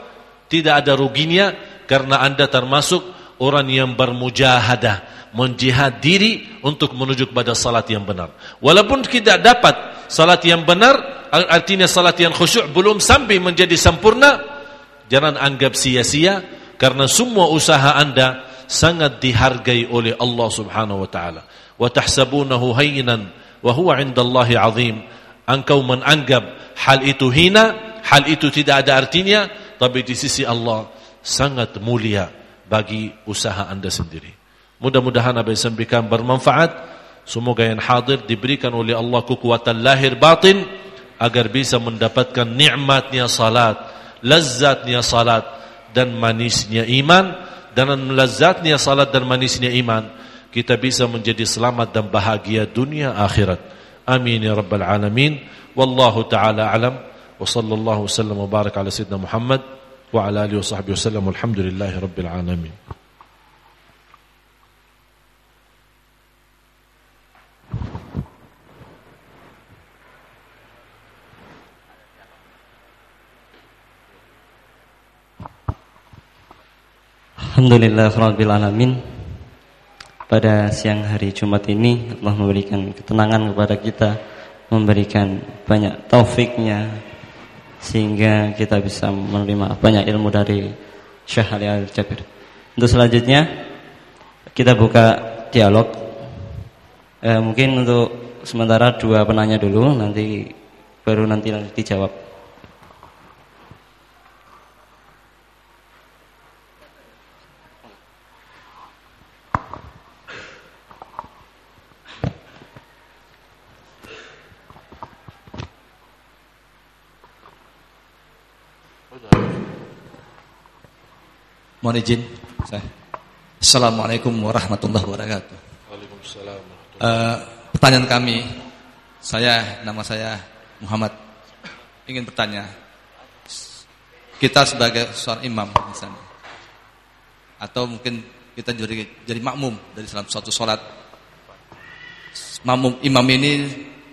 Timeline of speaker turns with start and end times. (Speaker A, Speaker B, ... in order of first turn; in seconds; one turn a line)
Speaker A: 0.5-14.4
Speaker A: 15.1-36.8
Speaker A: 37.3-40.6
Speaker A: 41.2-62.7
Speaker B: 77.4-79.4
Speaker B: 80.3-84.2
Speaker B: 84.7-87.0
Speaker B: 87.8-90.8
Speaker B: 91.3-92.2
Speaker B: 92.8-93.5
Speaker B: 94.5-96.2
Speaker B: 97.2-100.5
Speaker B: 101.0-102.1
Speaker A: 119.1-119.5
Speaker C: 121.8-122.9
Speaker C: 123.6-125.6
Speaker A: 125.9-127.3
Speaker C: 127.0-128.6
Speaker C: 129.2-131.1
Speaker C: 132.1-132.7
Speaker C: 134.4-136.2
Speaker C: 137.6-140.8
Speaker C: 142.6-143.9